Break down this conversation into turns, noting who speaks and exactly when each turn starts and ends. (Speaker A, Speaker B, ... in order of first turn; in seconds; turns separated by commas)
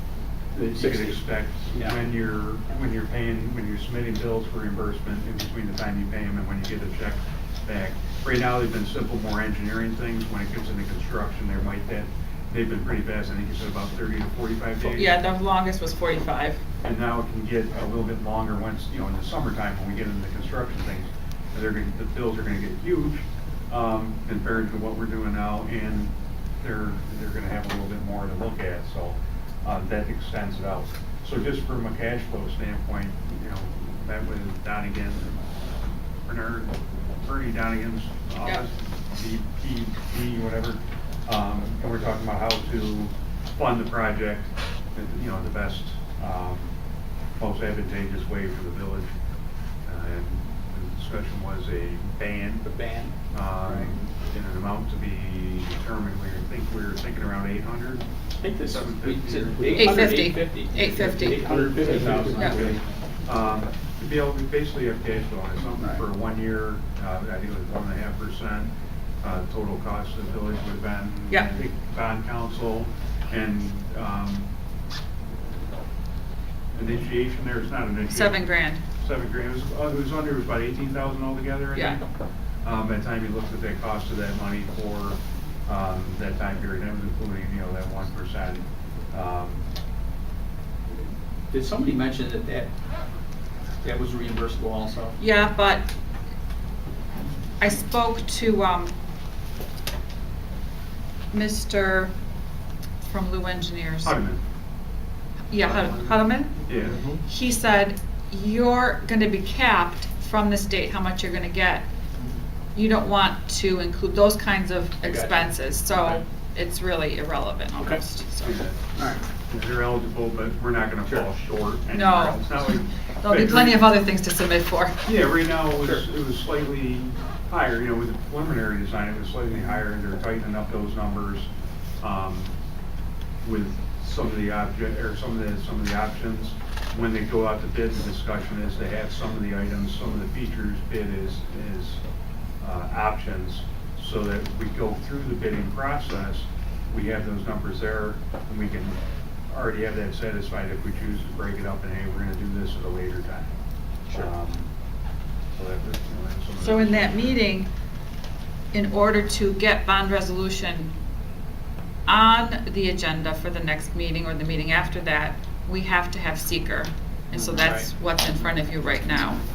Speaker A: 0.5-2.0, Speaker B: 0.6-15.2, Speaker C: 14.8-16.6, Speaker B: 16.8-35.5, Speaker B: 36.3-46.7, Speaker B: 47.4-49.1, Speaker B: 49.9-52.7, Speaker A: 52.6-54.0, Speaker B: 53.3-58.1, Speaker A: 58.4-62.8, Speaker B: 58.6-60.2, Speaker C: 59.7-61.5, Speaker B: 61.3-74.5, Speaker C: 62.4-62.7, Speaker A: 65.8-66.0, Speaker B: 76.7-78.5, Speaker C: 78.1-78.8, Speaker B: 79.0-82.0, Speaker C: 81.7-82.0, Speaker B: 82.6-89.7, Speaker A: 91.5-92.7, Speaker A: 93.8-95.2, Speaker C: 95.2-95.9, Speaker C: 97.6-98.9, Speaker C: 101.3-102.1, Speaker C: 103.0-104.2, Speaker B: 104.0-104.4, Speaker C: 105.5-111.9, Speaker B: 105.7-106.0, Speaker B: 106.7-107.0, Speaker C: 112.8-118.6, Speaker A: 115.0-116.2, Speaker A: 117.8-118.0, Speaker B: 118.4-123.9, Speaker A: 119.0-119.2, Speaker C: 121.9-122.6, Speaker C: 123.2-125.0, Speaker B: 125.0-131.5, Speaker B: 132.0-132.5, Speaker B: 133.4-142.0, Speaker B: 142.6-153.5, Speaker B: 154.1-154.7, Speaker B: 155.6-157.4, Speaker C: 156.6-157.7, Speaker C: 158.7-160.9, Speaker C: 162.1-169.4, Speaker A: 167.3-167.9